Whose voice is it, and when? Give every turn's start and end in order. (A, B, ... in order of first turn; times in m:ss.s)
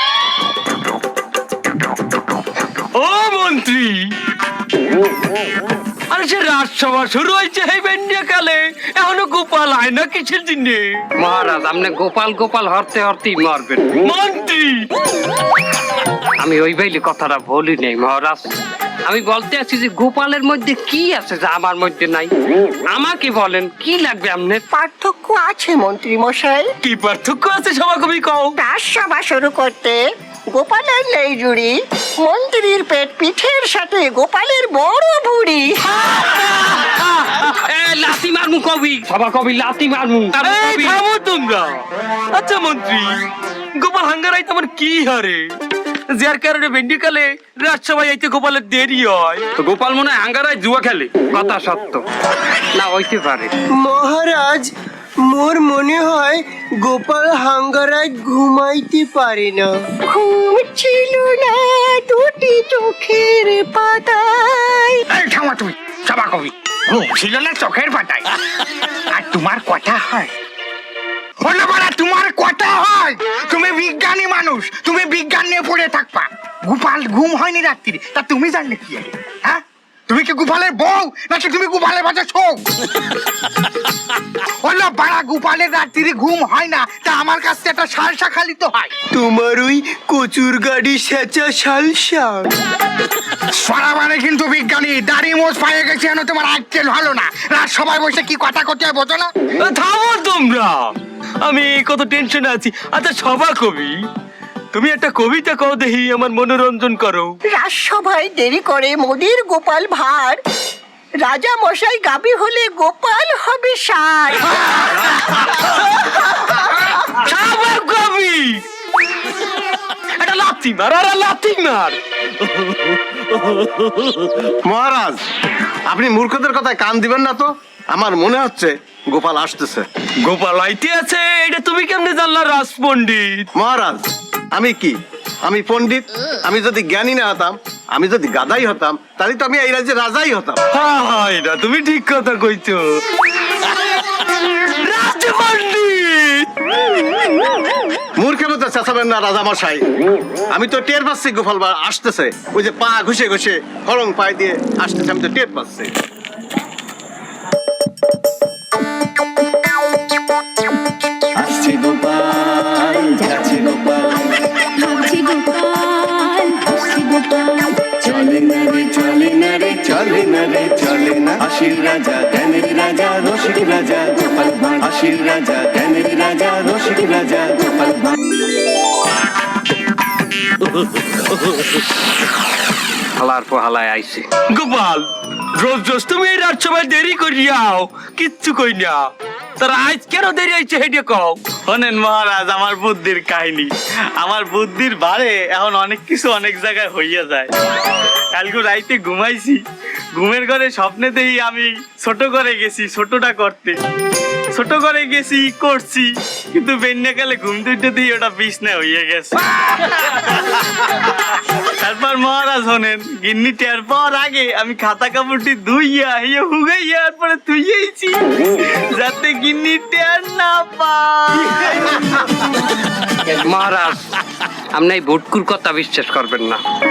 0:02.9-0:04.1 A
0:06.1-0:11.0 A
0:11.2-0:13.9 B
0:14.0-0:14.9 A
0:16.4-0:18.5 B
0:19.0-0:22.3 B
0:22.9-0:24.6 B
0:24.7-0:26.7 C
0:26.8-0:28.6 A
0:28.6-0:30.0 C
0:30.5-0:35.8 C
0:36.0-0:37.3 A
0:37.5-0:41.0 B
0:40.4-0:43.2 A
0:43.8-0:45.5 A
0:46.1-0:51.2 A
0:51.2-0:52.0 B
0:52.7-0:53.5 B
0:53.8-0:54.7 D
0:55.2-0:59.8 D
1:00.1-1:05.0 C
1:05.1-1:08.3 E
1:09.1-1:10.3 E
1:11.4-1:22.6 E
1:24.6-1:28.9 E
1:29.1-1:32.5 D
1:33.5-1:39.3 E
1:39.6-1:40.9 A
1:41.4-1:43.9 A
1:44.7-1:47.3 A
1:47.5-1:50.4 C
1:51.2-1:54.8 C
1:57.0-1:58.6 A
2:00.2-2:02.0 A
2:03.4-2:04.3 A
2:04.6-2:05.2 F
2:05.9-2:09.9 F
2:10.2-2:13.5 A
2:13.6-2:20.6 F
2:20.7-2:23.0 A
2:24.8-2:26.5 A
2:28.2-2:29.9 F
2:30.5-2:35.9 F
2:41.4-2:58.2 G
3:03.2-3:04.3 B
3:04.5-3:05.0 A
3:05.6-3:09.1 A
3:09.6-3:11.4 A
3:11.7-3:13.7 H
3:14.2-3:17.5 H
3:18.4-3:19.6 H
3:20.2-3:23.8 H
3:24.5-3:31.1 H
3:31.7-3:42.0 H
3:43.3-3:44.1 B
3:44.7-3:46.6 B